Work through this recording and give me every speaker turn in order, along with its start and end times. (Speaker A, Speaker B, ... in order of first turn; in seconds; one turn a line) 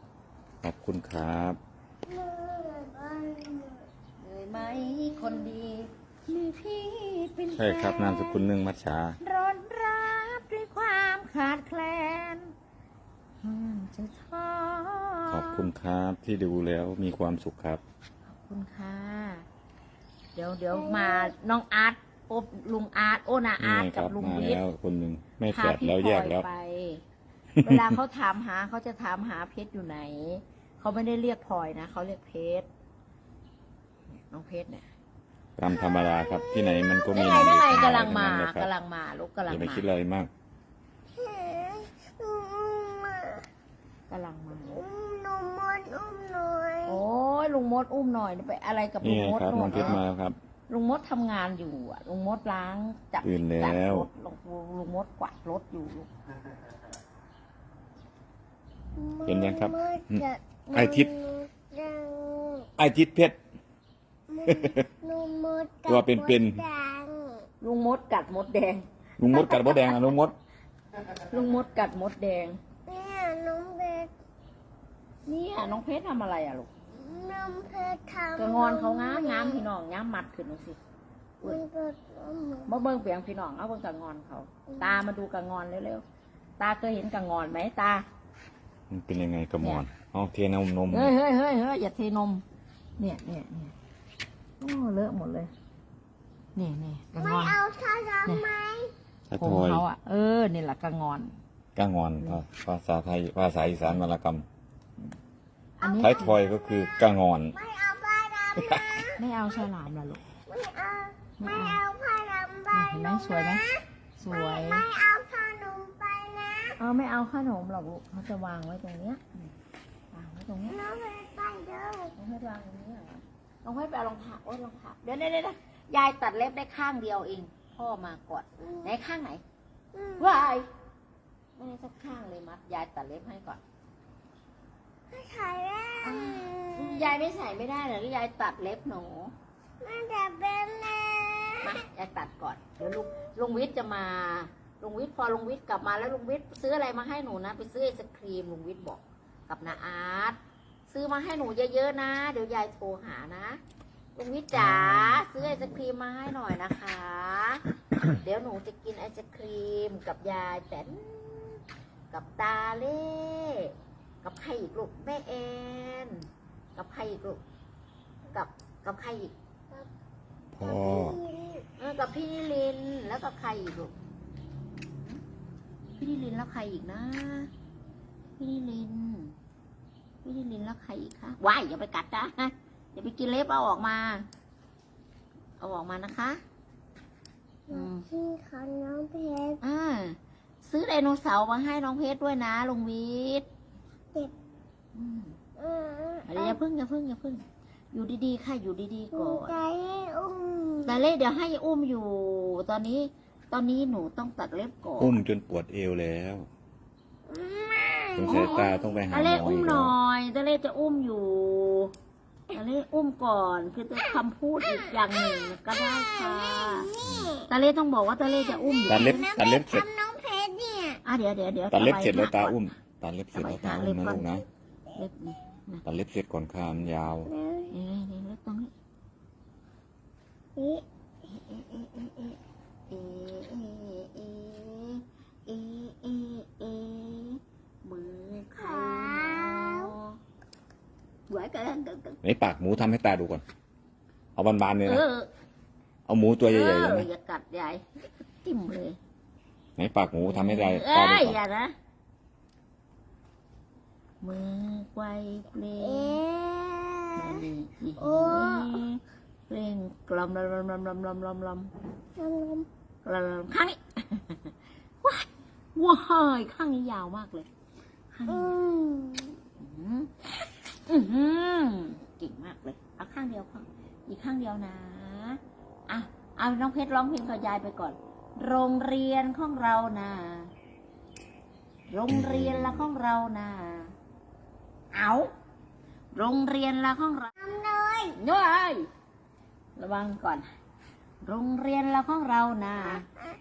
Speaker A: 0.6-1.6
Speaker B: 2.0-3.9
Speaker C: 4.2-8.4
Speaker A: 7.6-9.2
Speaker C: 9.2-12.5
Speaker C: 13.4-15.7
Speaker A: 15.3-17.8
Speaker C: 18.2-19.4
Speaker C: 20.4-24.6
Speaker B: 20.7-21.3
Speaker A: 23.6-26.4
Speaker C: 25.5-27.0
Speaker A: 27.6-27.9
Speaker C: 27.6-32.7
Speaker C: 34.3-34.9
Speaker A: 35.6-38.7
Speaker B: 35.7-37.8
Speaker C: 37.1-39.9
Speaker A: 39.5-40.3
Speaker B: 41.1-43.5
Speaker C: 44.1-44.8
Speaker B: 44.7-47.0
Speaker C: 46.9-50.0
Speaker A: 49.0-50.4
Speaker C: 50.7-56.1
Speaker A: 53.2-54.1
Speaker B: 59.0-62.7
Speaker A: 59.2-60.2
Speaker A: 60.7-61.1
Speaker A: 62.8-63.4
Speaker B: 64.3-67.5
Speaker A: 64.4-64.8
Speaker A: 65.8-66.6
Speaker C: 67.6-70.1
Speaker A: 69.2-70.3
Speaker C: 71.3-72.6
Speaker B: 72.9-74.1
Speaker C: 75.2-76.7
Speaker B: 76.9-79.7
Speaker C: 78.3-80.8
Speaker B: 81.4-82.7
Speaker C: 82.7-86.0
Speaker B: 84.7-85.0
Speaker C: 86.6-88.0
Speaker A: 88.9-91.1
Speaker C: 90.9-92.4
Speaker C: 93.0-93.7
Speaker C: 94.6-95.5
Speaker C: 96.5-97.6
Speaker B: 97.2-98.9
Speaker A: 99.3-99.8
Speaker C: 99.4-101.3
Speaker A: 101.8-104.4
Speaker C: 105.8-106.4
Speaker B: 105.8-106.2
Speaker A: 106.0-107.5
Speaker B: 107.5-109.2
Speaker C: 109.2-110.2
Speaker B: 110.5-116.8
Speaker C: 111.4-111.8
Speaker C: 112.7-113.6
Speaker C: 114.2-114.9
Speaker C: 116.8-119.5
Speaker C: 120.1-120.8
Speaker B: 120.7-122.1
Speaker C: 122.2-129.4
Speaker B: 129.9-130.3
Speaker C: 130.2-130.7
Speaker C: 131.6-133.6
Speaker B: 135.1-137.1
Speaker C: 136.0-139.3
Speaker B: 139.8-141.7
Speaker C: 141.6-153.6
Speaker C: 154.2-167.4
Speaker C: 168.3-169.3
Speaker A: 170.5-171.2
Speaker B: 170.6-171.7
Speaker C: 171.8-173.9
Speaker C: 176.0-177.5
Speaker C: 178.4-179.3
Speaker C: 180.2-184.2
Speaker C: 185.6-186.4
Speaker B: 187.7-189.6
Speaker C: 187.7-188.1
Speaker C: 189.6-193.4
Speaker C: 194.9-195.4
Speaker B: 195.6-196.6
Speaker C: 196.3-199.6
Speaker B: 199.1-201.0
Speaker C: 200.8-205.2
Speaker A: 205.0-206.5
Speaker B: 207.3-209.0
Speaker A: 208.2-209.9
Speaker C: 208.2-211.9
Speaker C: 212.5-216.9
Speaker B: 214.6-217.5
Speaker A: 217.0-217.3
Speaker C: 217.5-219.2
Speaker B: 218.2-221.0
Speaker A: 218.9-219.9
Speaker C: 221.0-222.6
Speaker A: 221.7-224.5
Speaker C: 223.3-224.3
Speaker C: 224.9-225.8
Speaker A: 225.8-227.3
Speaker B: 227.2-227.7
Speaker C: 227.7-228.7
Speaker C: 230.7-232.4
Speaker C: 232.9-240.2
Speaker B: 238.6-239.9
Speaker C: 241.3-242.2
Speaker A: 242.2-243.4
Speaker A: 244.3-245.0
Speaker C: 244.8-245.3
Speaker A: 246.1-247.1
Speaker C: 246.5-247.8
Speaker C: 248.4-249.0
Speaker A: 249.8-251.4
Speaker C: 250.3-251.7
Speaker C: 254.2-256.2
Speaker B: 255.8-257.4
Speaker C: 257.1-261.7
Speaker B: 258.0-258.8
Speaker B: 262.2-262.7
Speaker C: 263.0-267.5
Speaker C: 268.1-268.5
Speaker B: 268.3-269.4
Speaker C: 269.6-280.5
Speaker C: 281.9-283.9
Speaker A: 282.1-282.9
Speaker C: 284.9-285.3
Speaker C: 286.1-287.3
Speaker B: 287.4-288.1
Speaker C: 288.1-288.9
Speaker C: 289.8-290.5
Speaker C: 291.2-293.0